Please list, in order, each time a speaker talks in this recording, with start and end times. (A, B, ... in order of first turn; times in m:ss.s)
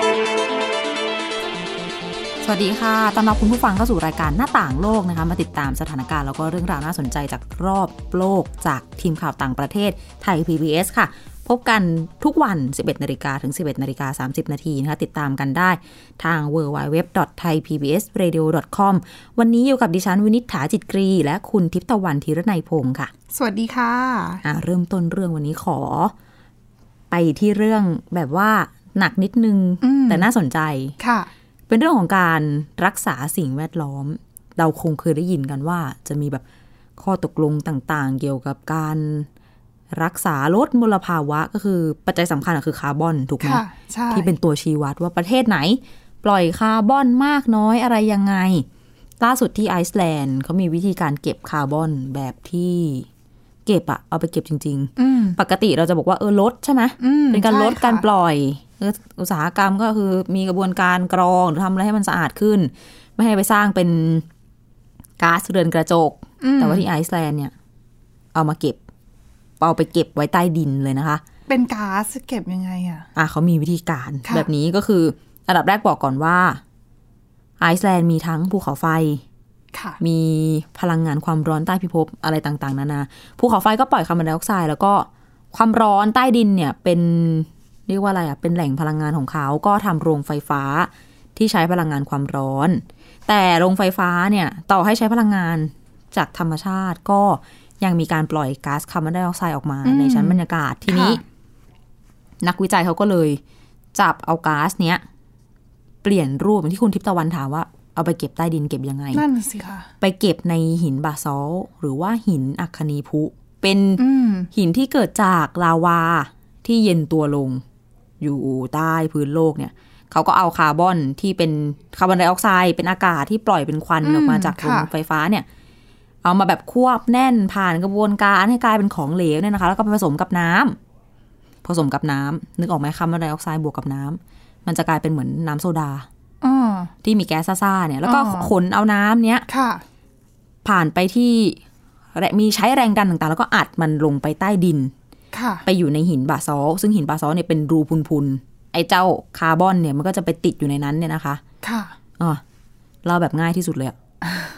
0:02.4-0:23.1 A
0:23.3-0:24.4 B
0:24.4-0:26.1 A
0:27.1-0:30.9 A
0:29.8-0:30.3 B
0:31.0-0:31.3 B
0:31.7-0:36.4 A
0:37.0-0:39.3 A
0:39.9-0:48.6 A
0:43.4-0:44.3 B
0:49.2-0:53.1 A
0:53.6-1:04.2 A
0:55.0-0:55.4 B
0:57.0-0:58.0 B
1:05.2-1:07.5 A
1:06.4-1:06.8 B
1:08.3-1:08.8 A
1:09.6-1:11.2 A
1:11.5-1:13.1 B
1:13.2-1:16.6 A
1:17.6-1:19.2 A
1:19.7-1:20.0 B
1:20.0-1:41.2 A
1:39.8-1:41.2 B
1:42.4-1:43.4 A
1:43.9-1:45.0 A
1:46.0-1:49.2 A
1:49.1-1:49.9 B
1:50.0-1:57.6 A
1:54.0-1:54.5 B
1:58.2-2:05.4 A
2:04.0-2:04.9 B
2:06.2-2:10.8 A
2:11.6-2:16.1 A
2:16.4-2:16.9 B
2:17.0-2:19.4 A
2:18.0-2:18.5 B
2:19.5-2:19.8 B
2:20.6-2:21.6 A
2:22.1-2:24.9 A
2:25.3-2:25.6 B
2:25.6-2:31.4 A
2:31.6-2:31.9 B
2:33.0-2:33.9 A